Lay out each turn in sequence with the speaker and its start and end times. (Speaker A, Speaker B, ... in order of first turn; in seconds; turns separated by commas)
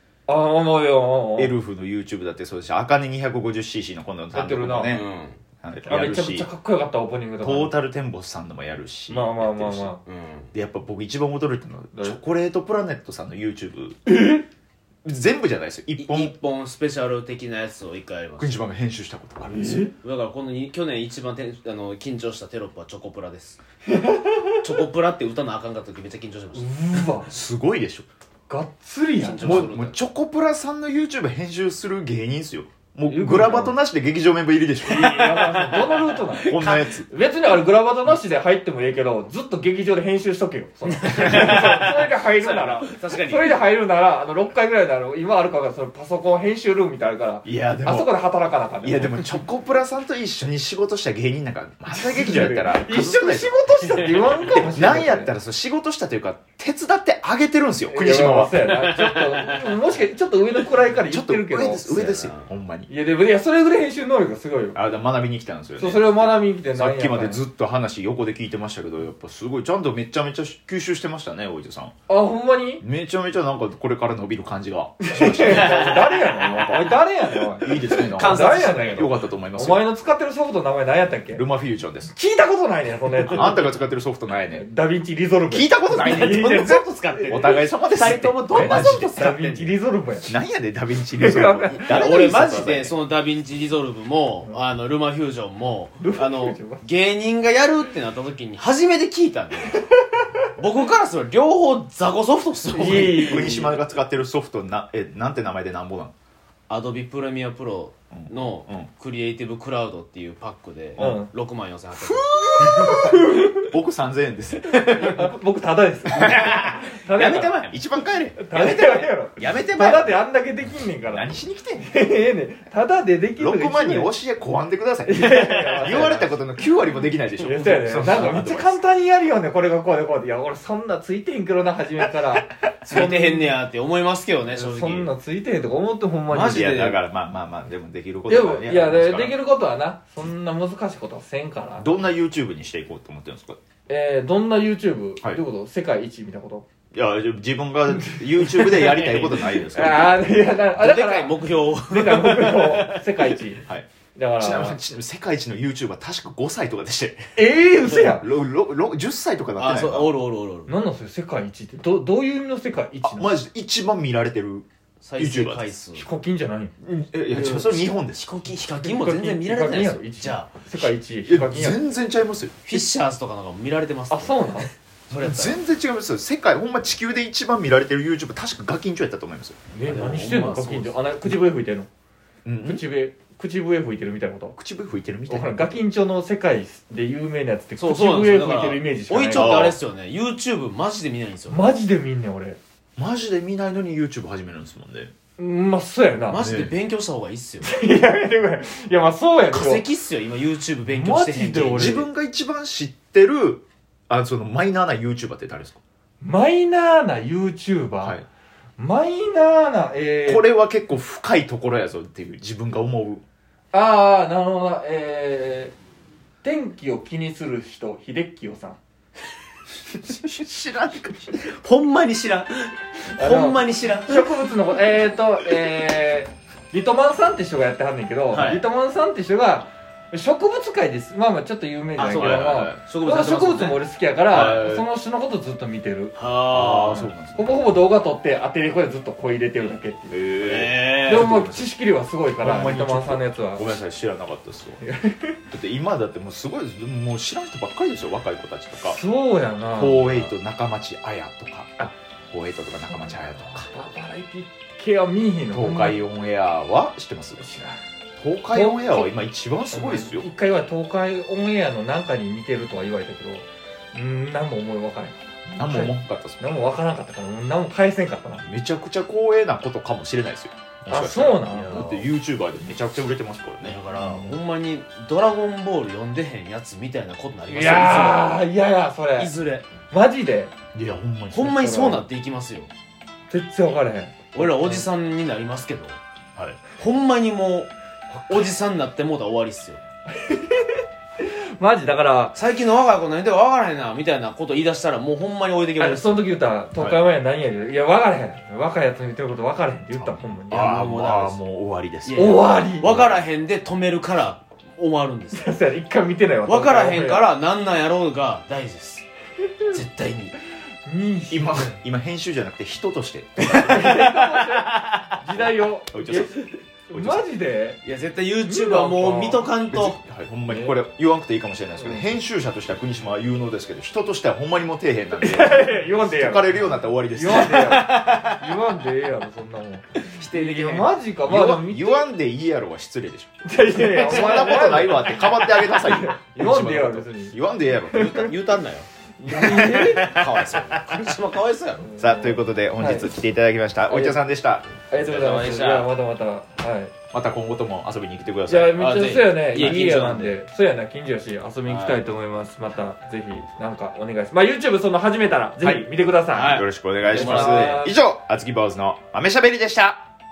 Speaker A: 0.3-1.6, Speaker B: 1.4-5.0, Speaker A: 4.3-5.0, Speaker C: 4.9-5.4, Speaker B: 5.6-6.5, Speaker A: 5.8-7.8, Speaker B: 7.4-9.9, Speaker A: 9.1-10.0, Speaker C: 10.0-10.5, Speaker B: 10.5-14.0, Speaker A: 11.9-12.2, Speaker A: 14.1-14.4, Speaker B: 15.0-16.3, Speaker C: 16.0-18.7, Speaker B: 18.4-19.9, Speaker A: 19.5-19.9, Speaker C: 20.0-23.6, Speaker A: 23.9-24.6, Speaker C: 24.6-26.7, Speaker A: 26.5-27.3, Speaker B: 27.3-28.1, Speaker A: 28.5-29.7, Speaker C: 29.2-30.0, Speaker B: 29.4-35.5, Speaker A: 33.1-33.8, Speaker A: 34.8-49.4, Speaker C: 34.9-36.8, Speaker B: 36.4-37.1, Speaker C: 40.9-43.6, Speaker B: 47.4-48.1, Speaker B: 48.8-53.5, Speaker A: 51.9-55.3, Speaker C: 53.9-54.5, Speaker B: 54.5-58.6, Speaker A: 57.9-62.3, Speaker C: 58.6-59.8, Speaker B: 61.1-62.9, Speaker C: 62.1-62.5, Speaker A: 62.9-64.8, Speaker B: 64.7-71.9, Speaker A: 65.8-67.4, Speaker A: 72.1-72.8, Speaker B: 72.8-77.0, Speaker A: 75.0-81.4, Speaker C: 75.6-75.9, Speaker B: 77.5-79.9, Speaker C: 78.0-79.1, Speaker B: 81.3-82.1, Speaker A: 82.1-83.9, Speaker B: 83.3-84.6, Speaker A: 84.5-87.4, Speaker B: 85.5-89.2, Speaker C: 86.0-89.8, Speaker A: 88.5-90.3, Speaker B: 90.2-92.9, Speaker A: 91.1-92.0, Speaker C: 91.7-99.8, Speaker A: 96.0-96.8, Speaker A: 99.7-100.2, Speaker C: 100.6-103.5, Speaker A: 102.7-103.8, Speaker B: 102.9-106.1, Speaker C: 106.7-113.1, Speaker B: 108.1-108.9, Speaker A: 111.0-111.3, Speaker A: 112.3-113.7, Speaker B: 112.5-115.3, Speaker A: 114.7-117.6, Speaker C: 116.1-120.2, Speaker B: 116.2-116.5, Speaker B: 117.7-118.4, Speaker A: 118.4-124.1, Speaker B: 121.1-121.9, Speaker B: 123.4-128.7, Speaker A: 125.0-126.4, Speaker A: 127.4-133.6, Speaker C: 132.8-135.1, Speaker A: 134.5-136.8, Speaker C: 136.3-137.0, Speaker B: 136.4-139.4, Speaker A: 138.3-142.0, Speaker B: 141.8-143.6, Speaker A: 143.9-146.7, Speaker B: 146.9-150.2, Speaker A: 147.9-153.6, Speaker C: 150.5-153.3, Speaker A: 154.1-154.8, Speaker B: 154.4-157.2, Speaker A: 157.3-158.2, Speaker B: 157.9-160.1, Speaker C: 159.6-160.8, Speaker A: 160.7-163.4, Speaker B: 163.0-165.7, Speaker C: 165.0-166.1, Speaker A: 165.9-166.7, Speaker B: 166.8-168.2, Speaker C: 167.3-170.6, Speaker A: 168.8-171.8, Speaker B: 170.8-172.8, Speaker C: 172.7-175.6, Speaker A: 174.1-174.7, Speaker B: 175.1-179.7, Speaker A: 179.7-181.9, Speaker C: 179.8-181.0, Speaker B: 182.4-182.8, Speaker A: 182.6-184.6, Speaker B: 184.6-185.8, Speaker A: 185.3-189.7, Speaker C: 187.8-191.7, Speaker B: 189.3-189.8, Speaker A: 191.5-192.6, Speaker B: 193.0-195.1, Speaker A: 195.4-196.4, Speaker C: 196.3-197.7, Speaker B: 196.4-196.7, Speaker A: 197.6-199.8, Speaker C: 199.5-202.0, Speaker A: 200.9-202.1, Speaker B: 201.7-205.8, Speaker A: 206.2-208.2, Speaker A: 208.8-210.4, Speaker B: 210.2-213.2, Speaker A: 213.7-215.7, Speaker A: 216.4-218.8, Speaker B: 220.1-221.3, Speaker C: 221.4-224.5, Speaker A: 223.2-236.1, Speaker C: 228.3-228.6, Speaker C: 231.9-234.6, Speaker B: 232.1-232.8, Speaker B: 234.3-234.8, Speaker C: 236.1-237.1, Speaker B: 236.5-237.5, Speaker A: 237.3-240.2, Speaker B: 240.1-241.7, Speaker C: 240.4-241.3, Speaker A: 241.0-243.7, Speaker B: 242.4-244.8, Speaker A: 244.8-245.4, Speaker B: 245.5-249.0, Speaker A: 248.8-250.3, Speaker B: 249.8-253.7, Speaker A: 252.9-256.0, Speaker B: 255.5-257.4, Speaker A: 257.4-257.8, Speaker B: 258.2-260.3, Speaker A: 258.5-259.1, Speaker A: 259.7-268.4, Speaker B: 265.5-266.4, Speaker B: 268.4-274.2, Speaker A: 270.9-271.9, Speaker C: 271.4-272.1, Speaker C: 273.6-278.4, Speaker A: 277.5-279.3, Speaker C: 279.2-279.7, Speaker A: 279.9-280.5, Speaker B: 280.7-281.6, Speaker C: 281.3-282.7, Speaker A: 281.6-282.0, Speaker A: 283.3-284.9, Speaker C: 284.3-286.0, Speaker B: 286.4-286.6, Speaker C: 286.7-289.8, Speaker A: 290.1-292.3, Speaker C: 292.3-296.3, Speaker A: 295.8-300.9, Speaker B: 296.8-297.0, Speaker B: 299.9-302.3, Speaker C: 300.5-301.4, Speaker C: 302.0-305.5, Speaker A: 302.1-303.0, Speaker B: 302.8-303.2, Speaker A: 305.3-307.3, Speaker C: 306.4-309.1, Speaker C: 309.7-310.3, Speaker A: 310.9-311.7, Speaker B: 311.3-313.9, Speaker C: 313.4-315.2, Speaker A: 313.6-316.3, Speaker B: 315.4-316.3, Speaker A: 316.9-317.8, Speaker B: 316.9-317.2, Speaker C: 317.8-320.0, Speaker A: 318.4-319.4, Speaker B: 319.7-327.8, Speaker A: 320.5-320.8, Speaker A: 321.8-322.1, Speaker A: 325.2-332.0, Speaker C: 327.4-328.6, Speaker C: 330.1-330.9, Speaker B: 331.2-338.1, Speaker A: 333.4-337.4, Speaker A: 337.9-338.3, Speaker C: 337.9-341.9, Speaker A: 339.2-340.2, Speaker A: 341.8-343.1, Speaker B: 342.0-344.7, Speaker A: 343.9-344.2, Speaker A: 344.9-346.9, Speaker C: 345.0-345.9, Speaker B: 347.1-348.9, Speaker A: 348.5-357.9, Speaker C: 348.8-350.4, Speaker B: 349.5-349.8, Speaker C: 351.6-352.0, Speaker C: 356.3-357.8, Speaker B: 356.5-360.0